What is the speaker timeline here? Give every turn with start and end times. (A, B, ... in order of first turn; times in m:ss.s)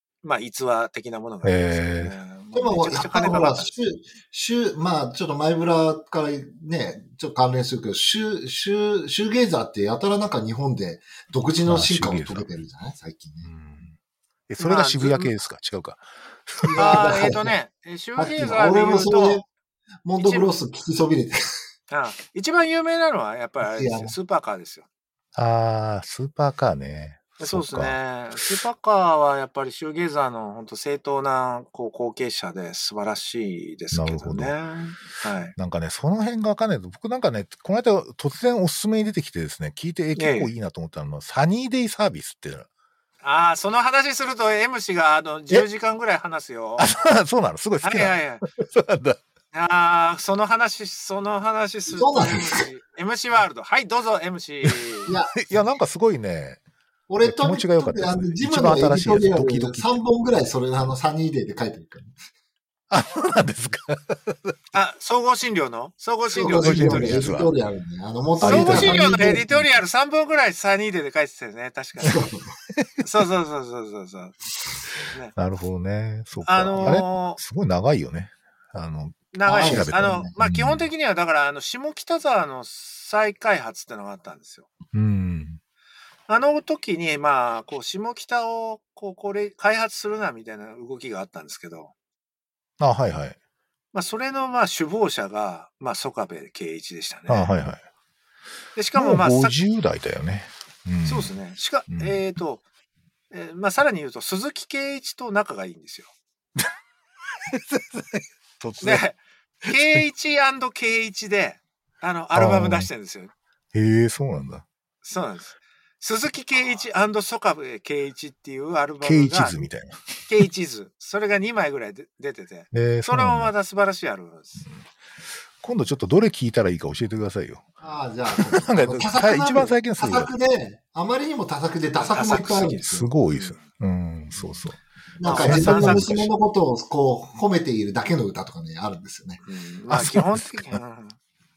0:00.2-0:03.7 A
0:01.4-0:02.1 B
0:02.5-0:13.5 C
0:11.6-0:12.5 B
0:13.4-0:14.0 B
0:14.5-0:17.1 B
0:14.6-0:15.3 A
0:16.6-0:17.5 C
0:16.8-0:19.4 A
0:18.2-0:19.4 C
0:20.0-0:21.4 C
0:20.2-0:20.5 A
0:21.9-0:24.8 A
0:23.6-0:24.2 C
0:25.3-0:28.6 B
0:27.4-0:35.5 A
0:33.9-0:34.5 B
0:35.6-0:42.7 B
0:40.2-0:40.5 A
0:43.2-0:46.9 A
0:46.8-0:49.2 B
0:47.8-0:48.4 A
0:49.5-0:55.1 A
0:51.9-0:52.7 C
0:55.1-0:55.4 C
0:55.3-0:56.6 B
0:57.1-1:02.2 C
0:57.2-1:00.0 B
1:02.9-1:04.6 B
1:04.7-1:07.2 A
1:06.3-1:09.7 C
1:06.5-1:07.5 B
1:08.4-1:09.4 B
1:08.4-1:12.2 A
1:12.0-1:12.5 C
1:13.0-1:14.4 A
1:15.1-1:15.3 A
1:15.4-1:20.9 B
1:16.4-1:17.4 A
1:19.3-1:24.7 A
1:19.4-1:20.3 C
1:24.9-1:25.6 B
1:26.3-1:31.9 A
1:32.8-1:33.4 B
1:33.9-1:37.5 A
1:37.3-1:37.8 B
1:38.8-1:39.6 A
1:38.9-1:41.3 B
1:41.0-1:42.6 A
1:41.9-1:42.2 B
1:43.3-1:46.1 A
1:47.5-1:49.0 B
1:48.8-1:53.3 A
1:49.7-1:50.0 B
1:52.3-1:52.9 B
1:53.7-1:54.6 B
1:55.0-1:59.6 A
1:59.0-2:00.2 B
2:00.3-2:04.6 A
2:02.7-2:03.5 B
2:05.6-2:07.6 B
2:07.8-2:13.1 C
2:08.3-2:10.3 B
2:12.0-2:13.6 A
2:12.8-2:16.3 B
2:15.2-2:19.4 C
2:15.2-2:16.2 A
2:19.5-2:21.2 A
2:19.9-2:20.8 B